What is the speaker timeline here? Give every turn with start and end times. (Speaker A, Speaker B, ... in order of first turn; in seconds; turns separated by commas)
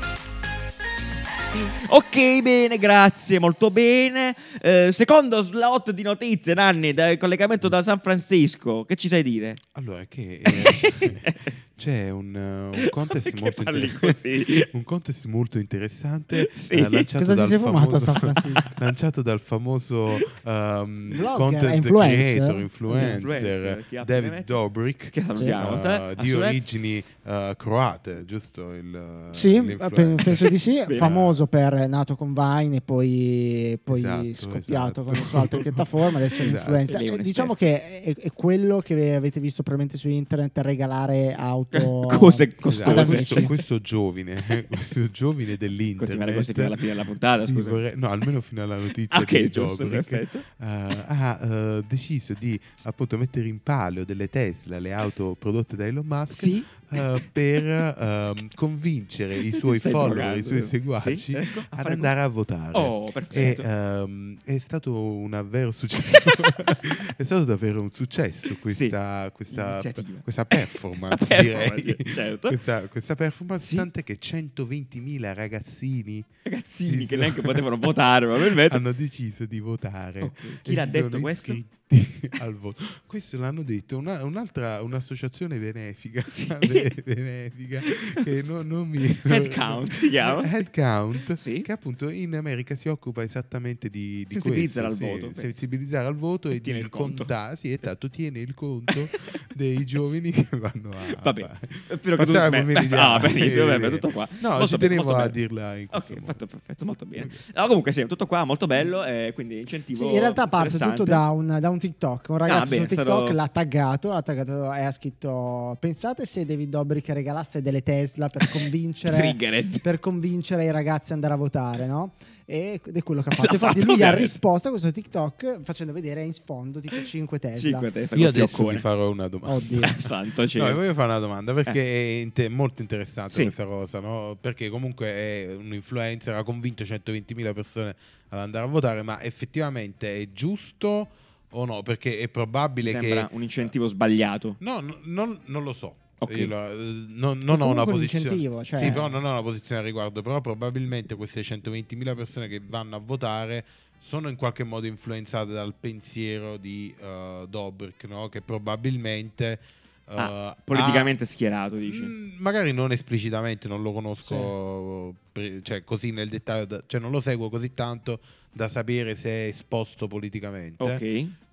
Speaker A: 1.5-9.6, Speaker B: 9.7-31.4, Speaker A: 10.5-11.5, Speaker A: 12.8-14.7, Speaker A: 16.4-17.1, Speaker C: 17.2-18.8, Speaker C: 21.1-23.2, Speaker A: 22.9-24.6, Speaker A: 25.1-26.6, Speaker C: 29.3-43.5, Speaker A: 30.9-31.1, Speaker B: 33.9-36.8, Speaker A: 36.9-37.5, Speaker A: 41.7-43.5, Speaker B: 42.7-46.8, Speaker A: 46.0-47.8, Speaker B: 47.4-76.3, Speaker A: 49.1-50.4, Speaker A: 56.3-57.2, Speaker A: 59.5-62.1, Speaker A: 62.7-63.7, Speaker A: 66.1-66.7, Speaker A: 68.7-68.9, Speaker A: 69.5-72.6, Speaker A: 73.6-73.9, Speaker A: 76.5-78.8, Speaker B: 76.8-106.4, Speaker A: 80.2-81.6, Speaker A: 86.3-86.9, Speaker A: 87.8-88.5, Speaker A: 89.2-90.7, Speaker A: 91.3-91.7, Speaker A: 94.3-95.5, Speaker A: 96.5-97.3, Speaker A: 98.9-99.2, Speaker A: 101.1-105.4, Speaker A: 105.9-111.2, Speaker C: 109.9-127.9, Speaker A: 112.5-113.4, Speaker A: 118.4-119.8, Speaker A: 123.4-124.4, Speaker A: 127.6-128.8, Speaker B: 128.1-143.3, Speaker C: 129.5-129.9, Speaker A: 129.8-130.8, Speaker A: 142.8-144.6, Speaker B: 144.6-161.1, Speaker A: 146.2-146.5, Speaker C: 147.5-149.1, Speaker A: 160.2-162.1, Speaker B: 161.8-171.0, Speaker A: 164.2-164.5, Speaker A: 170.8-171.3